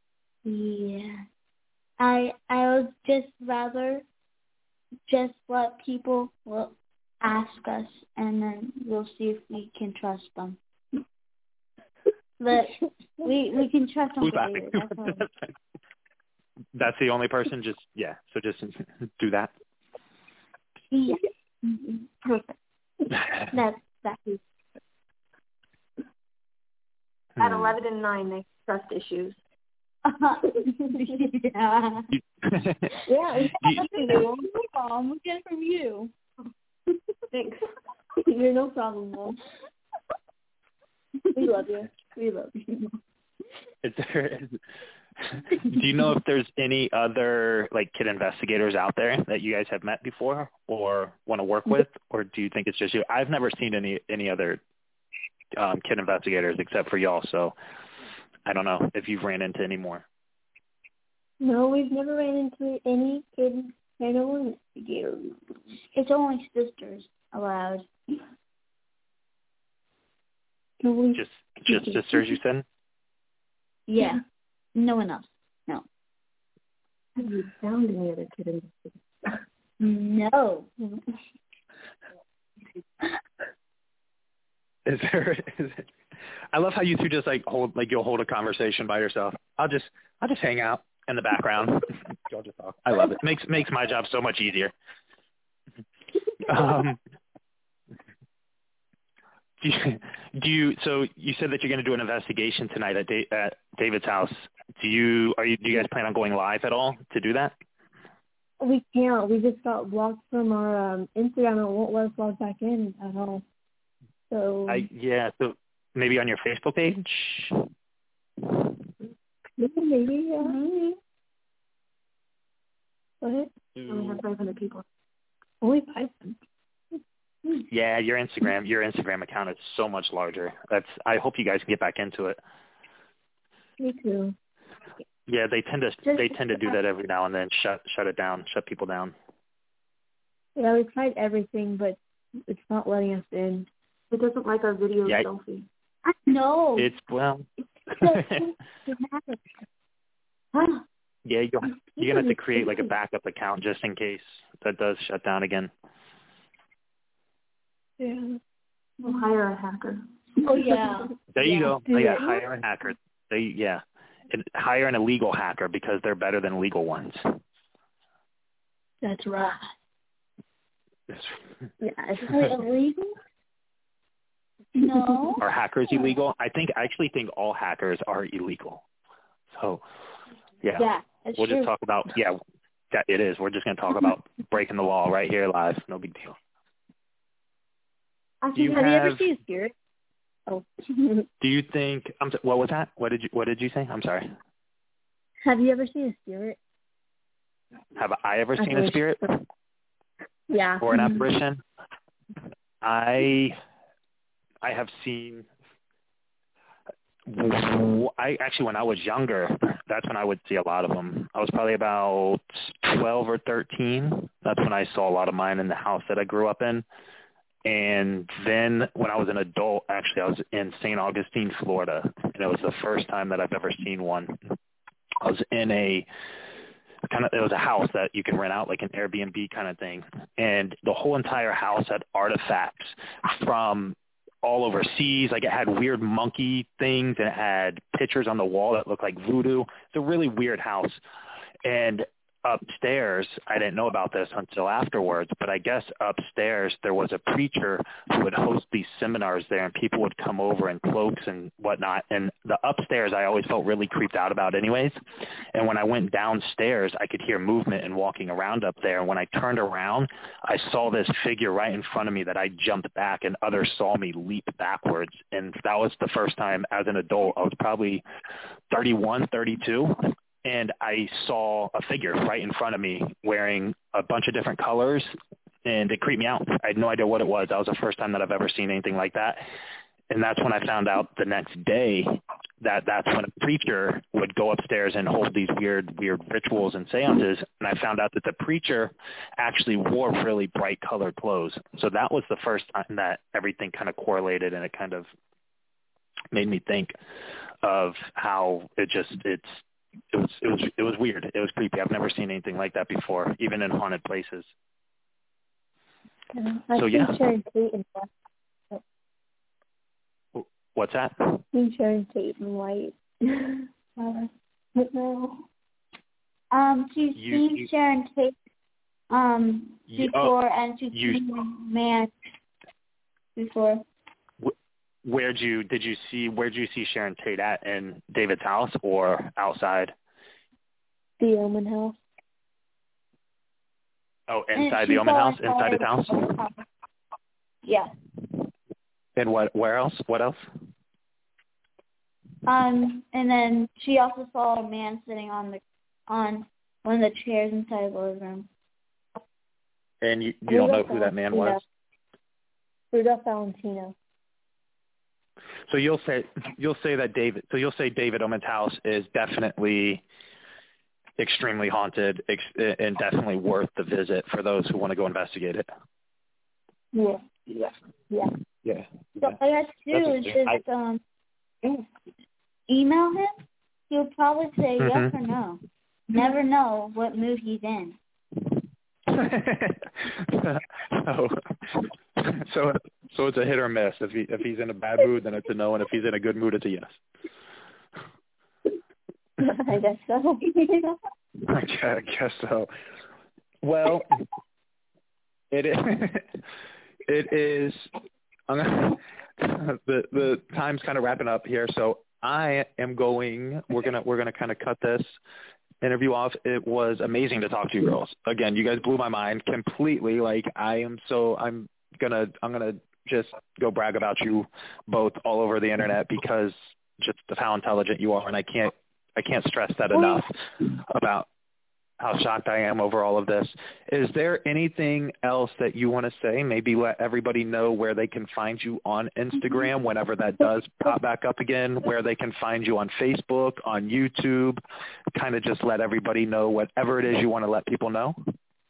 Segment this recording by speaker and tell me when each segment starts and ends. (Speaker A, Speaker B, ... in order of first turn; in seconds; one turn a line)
Speaker A: 0.4-1.2
Speaker A: 2.0-4.0
Speaker A: 5.1-10.6
Speaker A: 12.4-15.2
Speaker B: 14.2-15.3
Speaker B: 16.7-19.5
Speaker A: 20.9-22.0
Speaker B: 23.1-23.5
Speaker A: 23.9-24.4
Speaker B: 27.3-27.8
Speaker C: 27.4-29.4
Speaker A: 30.0-32.1
Speaker B: 32.1-32.9
Speaker D: 33.1-34.3
Speaker A: 33.5-36.1
Speaker B: 33.5-33.8
Speaker C: 37.3-37.6
Speaker D: 38.1-39.4
Speaker D: 41.3-42.9
Speaker B: 43.8-44.6
Speaker B: 45.2-54.6
Speaker B: 55.5-57.5
Speaker B: 58.5-60.0
Speaker D: 61.4-65.4
Speaker A: 65.9-67.9
Speaker D: 70.8-72.2
Speaker B: 71.1-72.6
Speaker A: 73.9-74.2
Speaker A: 74.7-75.8
Speaker C: 77.2-79.4
Speaker A: 79.8-80.7
Speaker B: 84.8-85.9
Speaker B: 86.5-94.7
Speaker B: 96.4-97.0
Speaker B: 99.6-107.5
Speaker D: 108.6-113.4
Speaker D: 114.3-114.8
Speaker B: 114.7-117.6
Speaker D: 119.6-120.6
Speaker D: 123.2-123.5
Speaker B: 123.8-124.2
Speaker C: 123.9-124.8
Speaker D: 125.6-126.3
Speaker B: 127.7-132.4
Speaker D: 133.8-134.3
Speaker B: 135.3-139.1
Speaker D: 140.6-143.7
Speaker C: 144.1-145.6
Speaker B: 145.0-145.3
Speaker A: 146.0-146.9
Speaker B: 146.8-148.5
Speaker A: 148.0-149.3
Speaker A: 150.5-150.8
Speaker B: 151.2-155.7
Speaker D: 158.0-158.4
Speaker C: 159.0-160.0
Speaker A: 160.4-161.6
Speaker B: 161.3-167.4
Speaker D: 161.8-162.3
Speaker D: 169.0-169.7
Speaker B: 171.1-171.4
Speaker D: 171.8-172.3
Speaker A: 172.1-173.2
Speaker A: 174.7-175.4
Speaker B: 175.4-178.8
Speaker B: 179.5-179.8
Speaker B: 180.6-182.4
Speaker A: 180.8-181.7
Speaker B: 182.9-186.3
Speaker D: 188.5-189.7
Speaker B: 188.5-189.3
Speaker D: 190.5-191.2
Speaker B: 191.4-194.3
Speaker D: 195.4-196.6
Speaker B: 197.9-199.4
Speaker D: 198.6-199.3
Speaker D: 200.5-201.1
Speaker B: 200.8-201.6
Speaker B: 202.8-203.6
Speaker B: 204.6-205.5
Speaker B: 207.3-216.8
Speaker B: 217.6-224.4
Speaker B: 225.2-226.1
Speaker B: 227.1-241.0
Speaker B: 241.6-255.0
Speaker B: 255.5-268.0
Speaker B: 268.7-275.1
Speaker B: 275.6-279.4
Speaker B: 280.1-295.1
Speaker B: 296.3-296.9
Speaker B: 297.6-304.5
Speaker D: 306.3-308.1
Speaker B: 306.8-307.2
Speaker B: 310.3-311.4
Speaker D: 311.5-313.7
Speaker A: 314.0-314.2
Speaker D: 314.8-315.4
Speaker A: 316.5-318.3
Speaker B: 317.1-317.7
Speaker A: 319.1-322.1
Speaker B: 319.9-320.3
Speaker B: 320.9-321.2
Speaker A: 323.4-323.8
Speaker B: 324.4-329.9
Speaker D: 331.2-332.0
Speaker B: 334.3-336.3
Speaker A: 334.5-336.6
Speaker A: 337.6-337.9
Speaker B: 339.1-340.5
Speaker A: 342.4-348.5
Speaker B: 350.0-351.6
Speaker D: 350.5-351.6
Speaker D: 352.9-353.9
Speaker B: 355.7-360.0
Speaker B: 361.2-365.7
Speaker D: 366.9-368.3
Speaker B: 368.6-369.4
Speaker A: 369.2-371.0
Speaker B: 369.9-370.6
Speaker A: 372.7-378.0
Speaker B: 374.8-375.1
Speaker B: 379.1-387.0
Speaker D: 389.4-390.5
Speaker A: 390.6-390.9
Speaker B: 391.4-392.7
Speaker B: 393.6-394.2
Speaker B: 395.5-396.4
Speaker B: 397.1-397.9
Speaker B: 398.5-405.2
Speaker B: 405.8-421.3
Speaker B: 422.0-434.6
Speaker B: 435.1-438.1